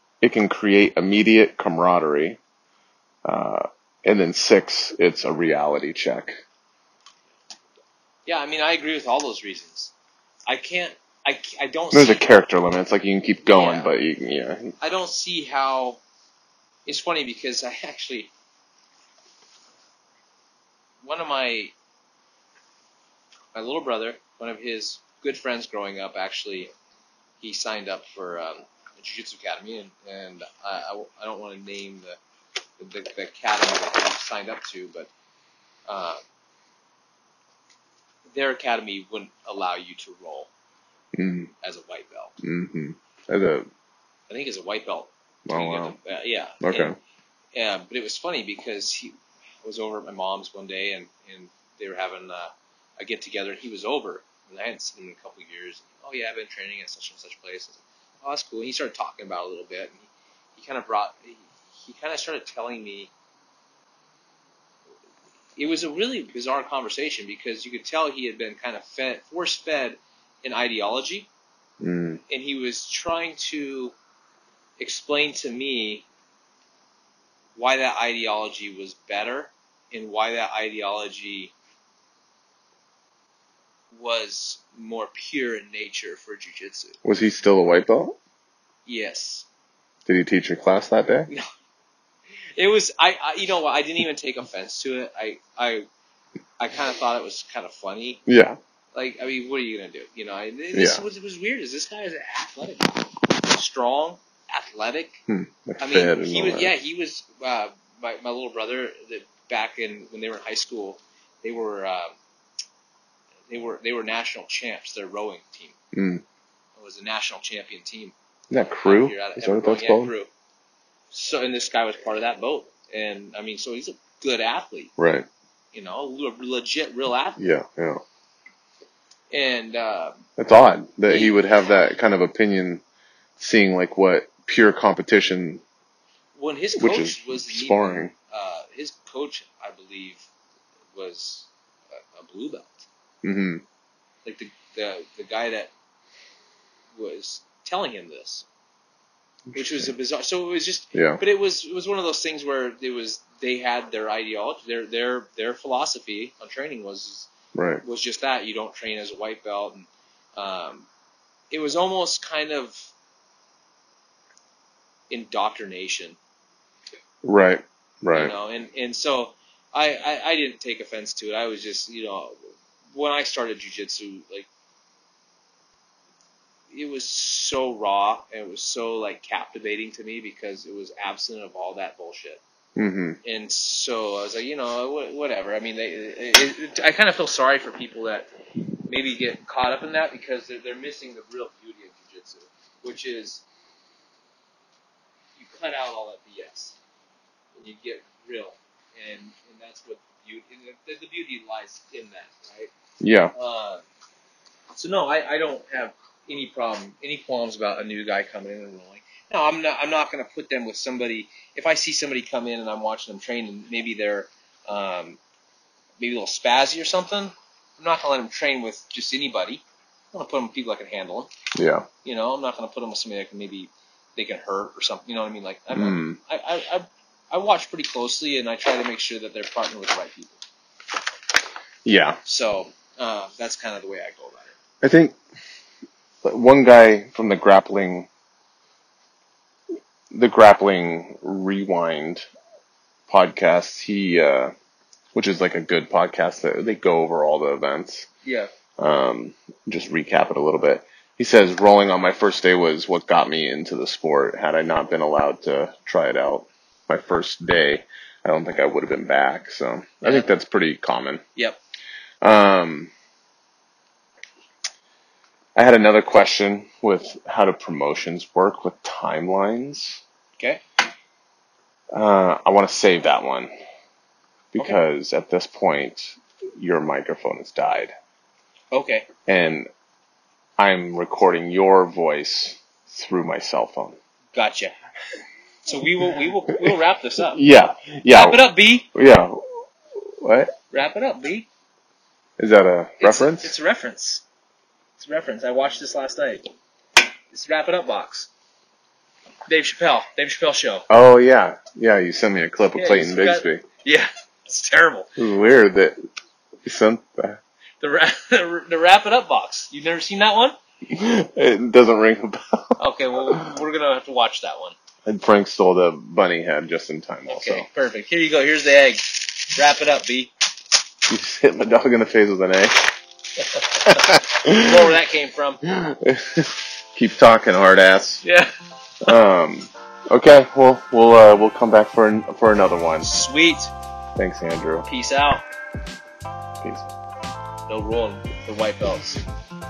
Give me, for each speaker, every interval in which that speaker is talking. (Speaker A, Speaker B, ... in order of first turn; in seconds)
Speaker A: 0.2-2.4, 3.2-6.3, 11.9-14.7, 41.1-41.5, 42.4-43.7, 45.5-45.9, 46.6-46.9, 71.8-72.2, 87.0-88.2, 90.1-91.3, 98.3-98.6, 100.7-101.0, 105.3-106.7, 115.9-116.2, 118.5-120.1, 125.0-125.3, 127.4-128.0, 130.4-132.8, 133.4-135.6, 136.8-138.1, 143.2-143.6, 149.5-149.9, 150.9-151.2, 157.5-157.8, 167.2-168.3, 182.8-183.2, 203.0-203.3, 221.5-221.9, 225.7-226.2, 231.8-232.2, 234.8-235.2, 236.2-238.1, 240.1-242.3, 243.1-244.5, 245.1-248.1, 248.8-261.2, 262.2-262.9, 265.5-270.0, 271.9-273.5, 274.5-277.9, 279.3-279.7, 280.6-284.0, 287.3-290.5, 292.4-293.5, 300.9-303.6, 305.2-306.0, 306.6-307.4, 310.8-312.8, 315.0-317.6, 321.1-322.9, 323.8-324.9, 325.6-328.2, 329.0-333.1, 334.1-334.9, 336.6-336.9
Speaker B: 8.2-9.9, 10.5-12.3, 13.4-13.9, 14.8-16.0, 16.9-18.3, 21.0-21.7, 23.5-26.7, 27.4-32.2, 32.8-35.1, 35.9-36.2, 38.3-40.5, 41.6-42.4, 44.3-46.9, 47.5-63.1, 65.6-71.3, 72.3-73.9, 74.8-76.0, 77.5-81.5, 83.9-87.0, 88.8-89.5, 92.6-95.9, 96.6-98.2, 98.9-105.2, 105.8-112.1, 113.5-115.7, 116.8-120.3, 121.1-124.9, 125.7-127.4, 129.3-130.2, 131.1-131.4, 136.3-140.3, 140.9-142.9, 144.2-145.7, 146.9-148.4, 149.5-157.3, 157.8-160.9, 161.5-162.9, 165.1-166.2, 168.1-172.4, 172.9-174.5, 176.7-182.4, 183.2-188.3, 188.9-193.4, 195.4-196.8, 197.6-202.7, 203.3-203.8, 204.7-215.2, 216.0-221.3, 222.0-230.4, 232.2-234.5, 248.2-248.5, 260.0-260.3, 278.7-279.1, 284.3-284.7, 285.6-287.4, 288.1-288.9, 290.7-291.5, 293.0-294.2, 295.0-296.5, 297.3-298.3, 299.5-300.9, 302.7-305.1, 307.8-310.5, 312.8-314.8, 317.3-320.3, 323.7-325.6, 328.2-328.5, 333.0-333.7, 334.9-335.4, 337.7-339.2